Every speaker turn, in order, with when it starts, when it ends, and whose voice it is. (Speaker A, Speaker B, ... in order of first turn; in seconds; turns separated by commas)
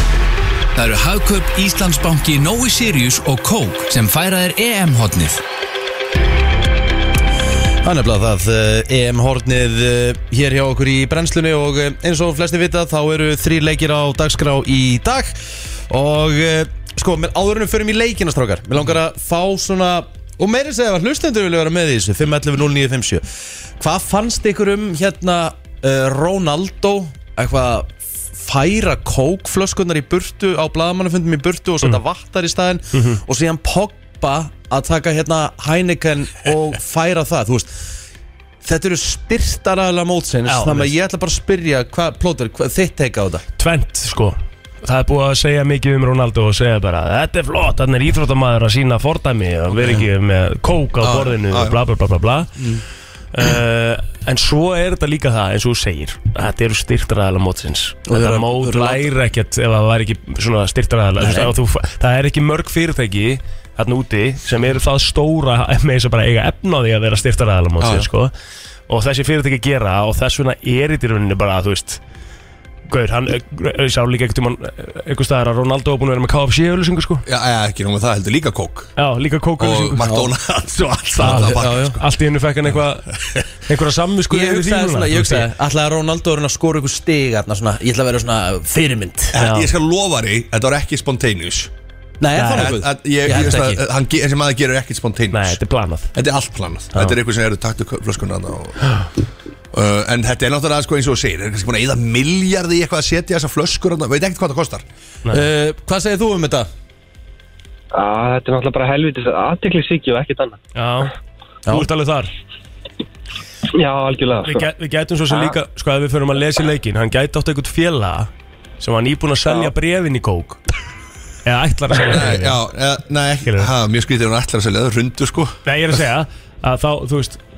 Speaker A: 0.7-5.4, Speaker B: 7.8-15.3, Speaker B: 15.9-23.2, Speaker B: 23.8-37.7, Speaker C: 32.9-33.2, Speaker B: 38.6-43.4, Speaker C: 40.5-40.9, Speaker C: 43.6-52.5, Speaker B: 49.8-50.1, Speaker D: 51.0-51.8, Speaker C: 53.3-68.3, Speaker B: 58.1-59.1, Speaker B: 61.2-61.5, Speaker B: 67.8-68.1, Speaker C: 68.9-72.0, Speaker C: 72.9-77.3, Speaker D: 77.3-78.9, Speaker C: 79.0-80.1, Speaker D: 79.6-82.0, Speaker B: 80.0-80.3, Speaker B: 81.2-82.0, Speaker C: 81.2-85.5, Speaker B: 84.3-89.4, Speaker D: 89.3-91.7, Speaker C: 89.3-89.7, Speaker B: 92.2-93.8, Speaker C: 92.3-92.8, Speaker D: 92.5-95.6, Speaker C: 95.3-96.1, Speaker D: 96.1-98.9, Speaker D: 99.7-104.8, Speaker B: 105.3-106.7, Speaker E: 107.9-110.6, Speaker C: 110.8-111.1, Speaker C: 111.7-112.3, Speaker E: 113.7-114.7, Speaker C: 114.5-120.6, Speaker C: 121.5-122.6, Speaker D: 122.0-125.6, Speaker C: 123.5-123.7, Speaker C: 125.7-127.4